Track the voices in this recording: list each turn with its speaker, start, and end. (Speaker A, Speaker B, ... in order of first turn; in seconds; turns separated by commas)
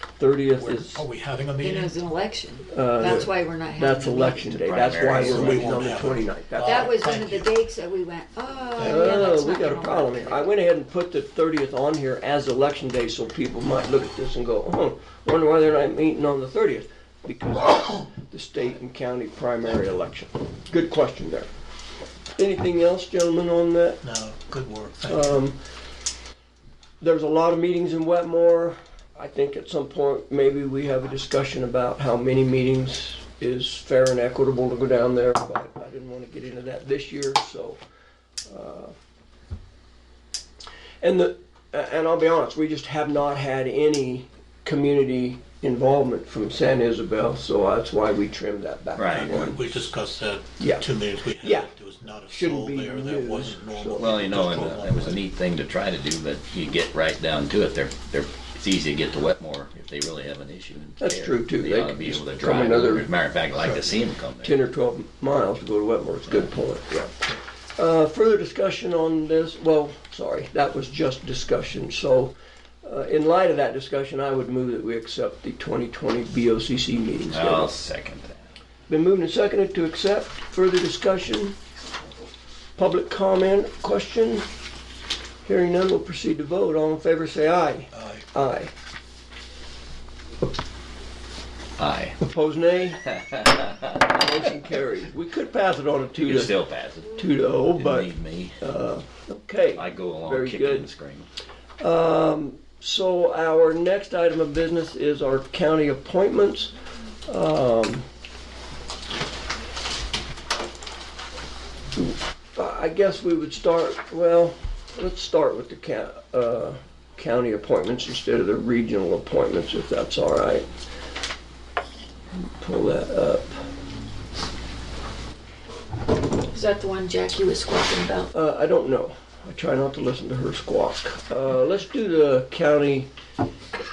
Speaker A: 0.2-1.0, Speaker B: 0.5-1.9, Speaker C: 1.6-4.4, Speaker A: 2.7-7.0, Speaker D: 4.3-5.9, Speaker B: 5.0-7.6, Speaker C: 5.3-5.7, Speaker C: 6.6-10.5, Speaker B: 8.8-9.5, Speaker A: 8.8-21.5, Speaker A: 22.4-24.0, Speaker B: 24.0-25.4, Speaker A: 25.1-25.6, Speaker A: 27.0-37.8, Speaker A: 38.5-38.9, Speaker A: 41.0-49.8, Speaker D: 49.0-49.4, Speaker B: 49.1-55.2, Speaker A: 50.6-50.9, Speaker A: 51.4-51.7, Speaker A: 52.3-54.2, Speaker D: 54.0-64.6, Speaker A: 61.0-63.1, Speaker B: 63.6-63.9, Speaker A: 64.4-77.7, Speaker D: 77.3-78.4, Speaker A: 78.9-81.6, Speaker A: 82.8-84.5, Speaker A: 85.5-88.7, Speaker B: 88.0-88.2, Speaker D: 91.8-92.2, Speaker A: 92.2-93.1, Speaker D: 93.3-93.7, Speaker A: 93.9-100.9, Speaker D: 96.2-98.6, Speaker D: 99.8-101.3, Speaker A: 101.8-106.7, Speaker A: 107.3-108.1, Speaker A: 112.0-120.7, Speaker A: 122.6-123.7, Speaker C: 126.5-128.3, Speaker A: 128.3-133.1